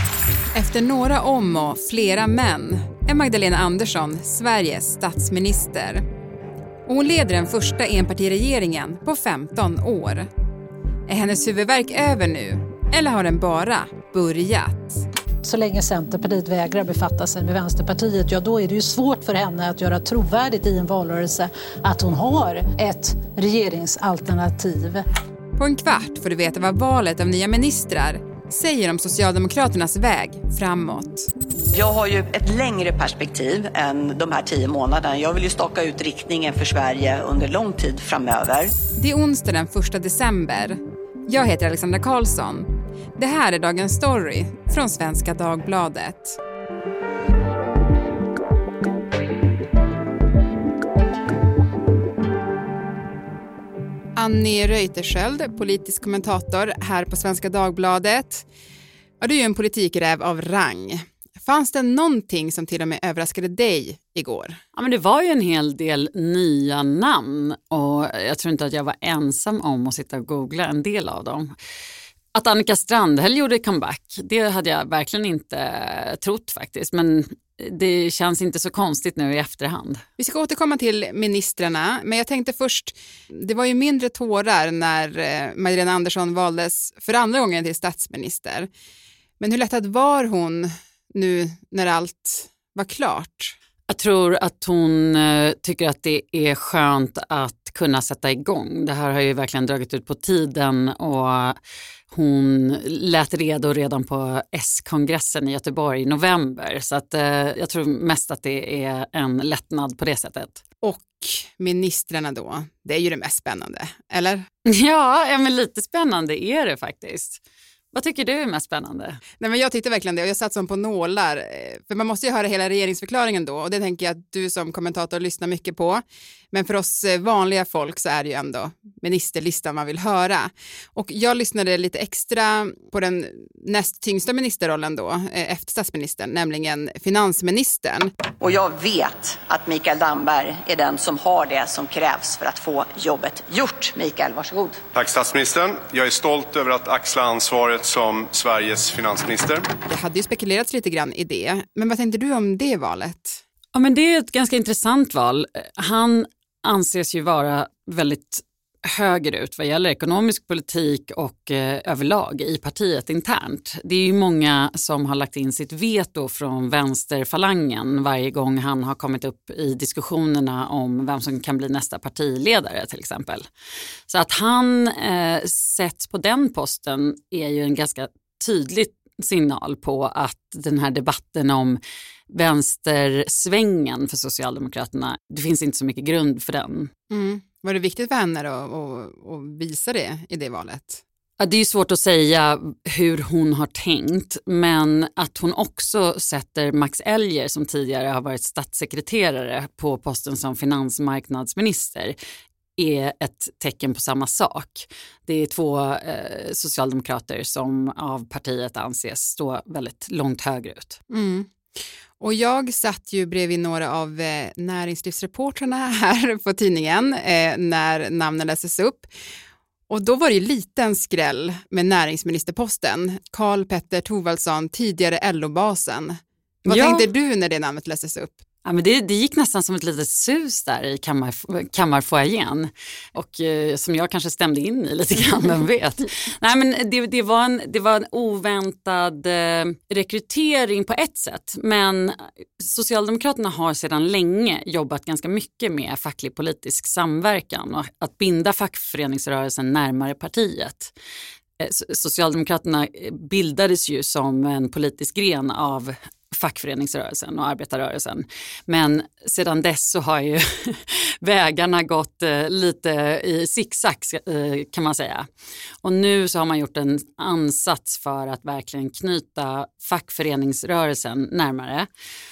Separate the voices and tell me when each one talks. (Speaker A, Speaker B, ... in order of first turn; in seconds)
Speaker A: 0.6-6.0, 6.9-10.3, 11.1-15.1, 25.6-31.3, 39.0-46.4, 54.2-58.5, 59.2-64.6, 80.2-88.7, 89.4-93.5, 110.8-114.4, 119.4-138.1, 149.9-153.4, 187.1-191.0, 211.1-211.5, 212.2-219.1, 219.9-228.4
Speaker B: 15.4-25.0
Speaker C: 31.7-38.7, 138.4-144.8
Speaker D: 64.8-71.5, 72.3-80.0, 93.9-101.6, 102.1-110.6, 114.7-117.4, 117.9-119.2, 153.8-173.5, 174.1-181.8, 182.3-186.9, 191.4-202.2, 202.8-211.0, 226.7-227.1, 228.7-250.9, 251.6-265.3, 265.8-271.9
Speaker E: 144.9-149.7